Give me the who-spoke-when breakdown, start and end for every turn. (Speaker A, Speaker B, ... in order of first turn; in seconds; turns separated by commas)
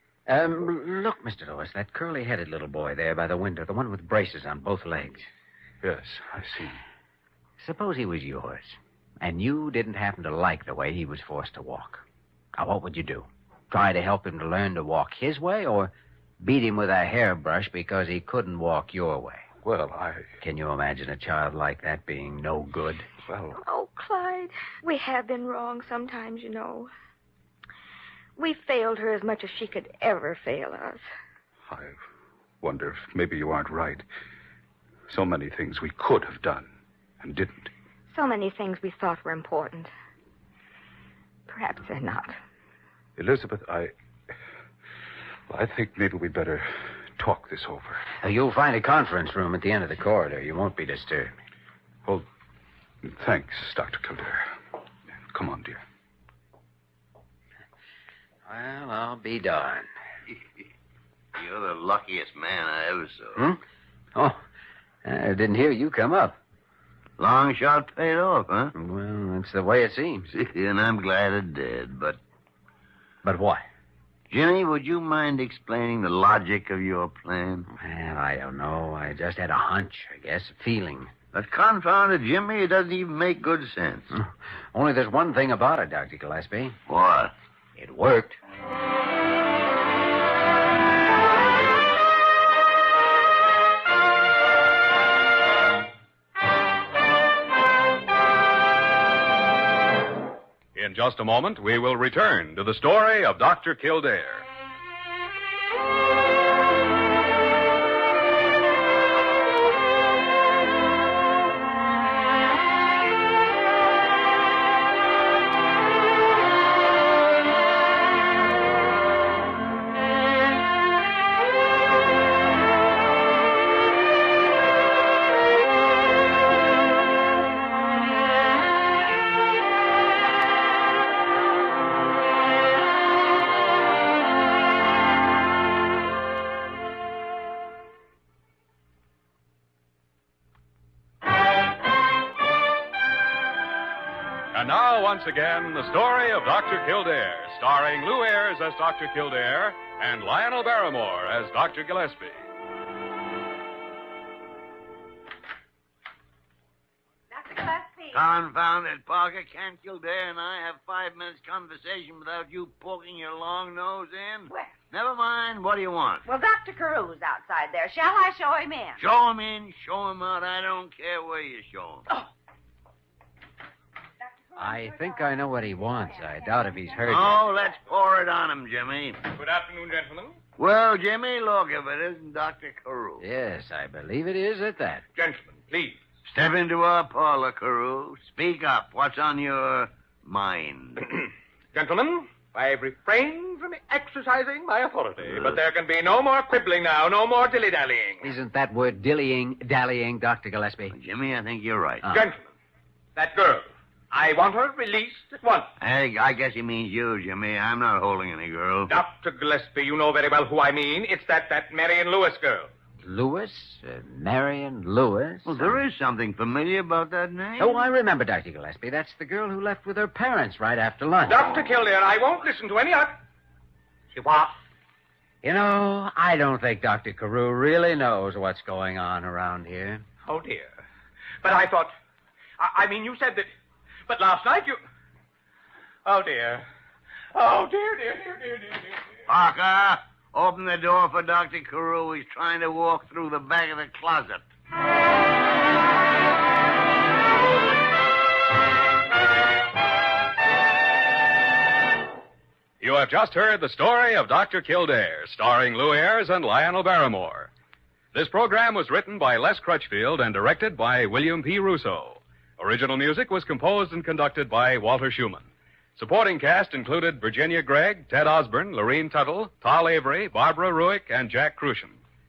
Speaker A: 0.3-5.3, Speaker B: 5.8-6.8, Speaker A: 7.6-12.0, Speaker A: 12.6-19.5, Speaker B: 19.6-20.3, Speaker A: 20.4-23.1, Speaker B: 23.3-23.6, Speaker C: 23.6-26.9, Speaker C: 28.4-31.0, Speaker B: 31.7-32.0, Speaker B: 32.6-34.0, Speaker B: 35.1-36.7, Speaker B: 37.2-37.7, Speaker C: 38.1-39.9, Speaker C: 41.5-42.3, Speaker B: 43.2-43.9, Speaker B: 45.5-48.0, Speaker A: 48.2-51.3, Speaker B: 53.0-54.5, Speaker B: 55.3-55.8, Speaker A: 58.5-59.9, Speaker D: 61.3-63.4, Speaker A: 63.4-63.6, Speaker A: 64.1-64.4, Speaker A: 65.0-66.3, Speaker D: 67.2-68.7, Speaker A: 68.7-70.3, Speaker D: 70.3-72.2, Speaker A: 73.2-73.7, Speaker D: 74.3-77.7, Speaker A: 77.7-81.1, Speaker D: 81.3-84.1, Speaker A: 84.1-86.8, Speaker D: 86.9-87.3, Speaker A: 87.8-88.4, Speaker E: 100.7-104.4, Speaker E: 144.5-152.4, Speaker F: 157.3-158.2, Speaker D: 158.1-166.2, Speaker F: 166.2-169.0, Speaker D: 169.0-172.1, Speaker A: 174.6-177.5, Speaker F: 176.9-177.6, Speaker D: 177.1-179.2, Speaker G: 179.3-180.4, Speaker D: 180.6-183.2, Speaker A: 183.2-185.0, Speaker G: 185.1-186.0, Speaker D: 186.2-191.1, Speaker G: 191.7-198.3, Speaker A: 198.2-200.9, Speaker D: 200.9-202.1, Speaker G: 202.1-202.5, Speaker G: 203.2-205.7, Speaker D: 205.8-208.9, Speaker G: 208.9-212.7, Speaker A: 213.0-215.8, Speaker D: 215.4-217.8, Speaker A: 217.6-221.4, Speaker G: 221.3-223.2, Speaker G: 224.1-224.6, Speaker A: 225.4-230.0, Speaker G: 230.2-230.8, Speaker G: 231.4-231.9, Speaker G: 232.6-233.5, Speaker G: 234.1-234.8, Speaker G: 236.0-236.7, Speaker G: 237.3-239.0, Speaker D: 239.3-244.4, Speaker E: 252.8-257.5, Speaker E: 258.1-272.0